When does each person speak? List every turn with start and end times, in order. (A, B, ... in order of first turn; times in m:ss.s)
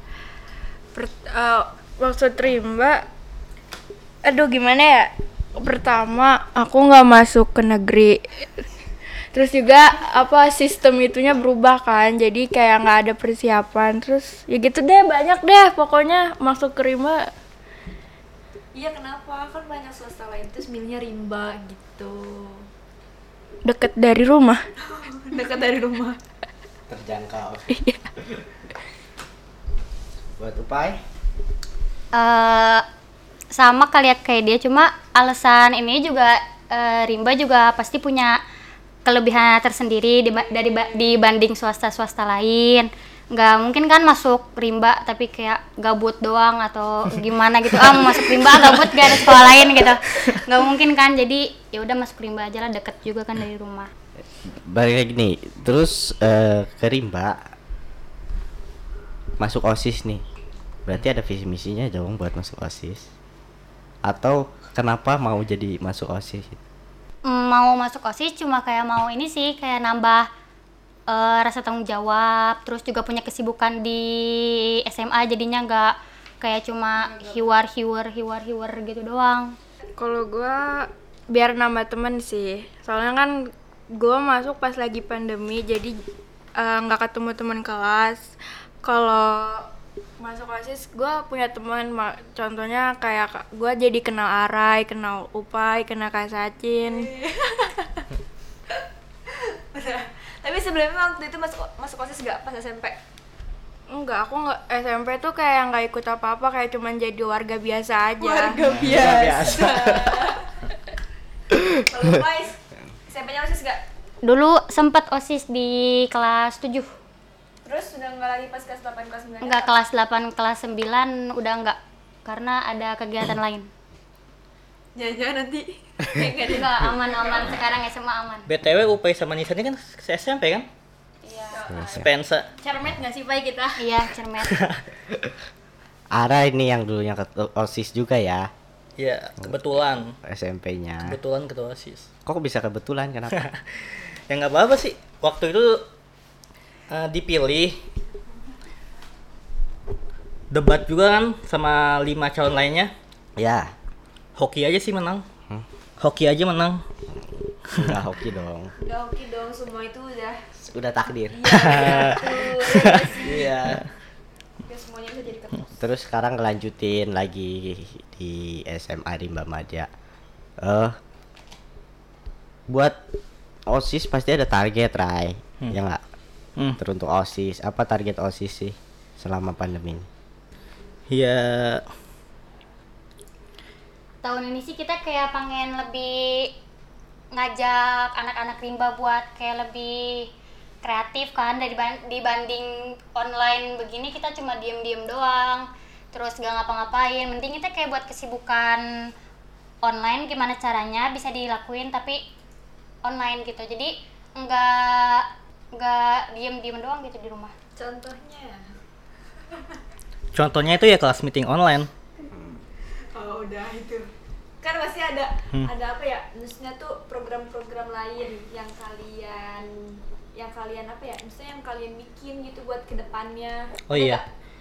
0:00.9-0:03.0 A
0:04.2-0:08.6 A
0:09.3-0:17.2 A
0:18.7-0:22.7 B
0:23.6-0:24.6 A
0:24.8-0:26.2 B
0:26.9-0:27.8 C
0:27.7-0:28.1 A
0:30.4-0:31.0 C
0:32.1-0:32.8 D
0:33.5-0:38.4 D
0:39.0-0:53.9 D
0:40.4-0:41.1 B
0:54.4-0:57.5 C
0:59.4-1:00.2 C
1:00.8-1:03.1 C
1:04.0-1:06.6 C
1:07.3-1:10.3 D
1:11.1-1:19.6 D
1:17.1-1:17.4 A
1:20.0-1:26.0 A
1:26.6-1:28.3 A
1:28.8-1:37.1 A
1:36.8-1:38.1 B
1:38.7-1:43.0 B
1:43.9-1:48.6 A
1:48.2-1:50.7 B
1:48.6-1:50.4 C
1:51.8-1:53.8 B
1:54.3-1:56.9 D
1:57.6-1:59.8 B
1:59.4-2:03.7 D
2:05.0-2:07.5 B
2:06.4-2:08.5 D
2:08.5-2:10.7 E
2:11.5-2:11.9 A
2:11.7-2:12.1 C
2:11.8-2:12.5 E
2:12.6-2:13.8 A
2:13.8-2:14.6 D
2:14.5-2:14.8 E
2:16.1-2:18.5 C
2:19.0-2:20.2 E
2:20.1-2:21.2 C
2:21.0-2:22.1 E
2:22.3-2:23.5 C
2:23.4-2:25.8 E
2:26.9-2:27.8 E
2:30.5-2:32.9 E
2:33.4-2:33.7 C
2:34.4-2:35.2 E
2:36.0-2:36.8 E
2:37.7-2:38.7 C
2:38.8-2:40.4 B
2:40.6-2:41.6 C
2:41.3-2:43.6 B
2:41.5-2:43.1 E
2:43.2-2:43.9 C
2:44.6-2:45.8 B
2:45.8-2:49.9 C
2:50.6-2:51.0 C
2:52.7-2:53.0 C
2:53.7-2:56.0 C
2:56.8-3:00.1 C
3:01.1-3:01.8 E
3:04.2-3:06.5 D
3:07.3-3:10.3 D
3:10.8-3:18.8 D
3:19.8-3:22.2 D
3:23.0-3:27.5 D
3:27.8-3:28.8 B
3:29.5-3:29.8 B
3:30.3-3:31.9 E
3:32.3-3:32.6 C
3:33.1-3:34.1 B
3:34.6-3:44.2 B
3:43.9-3:44.2 E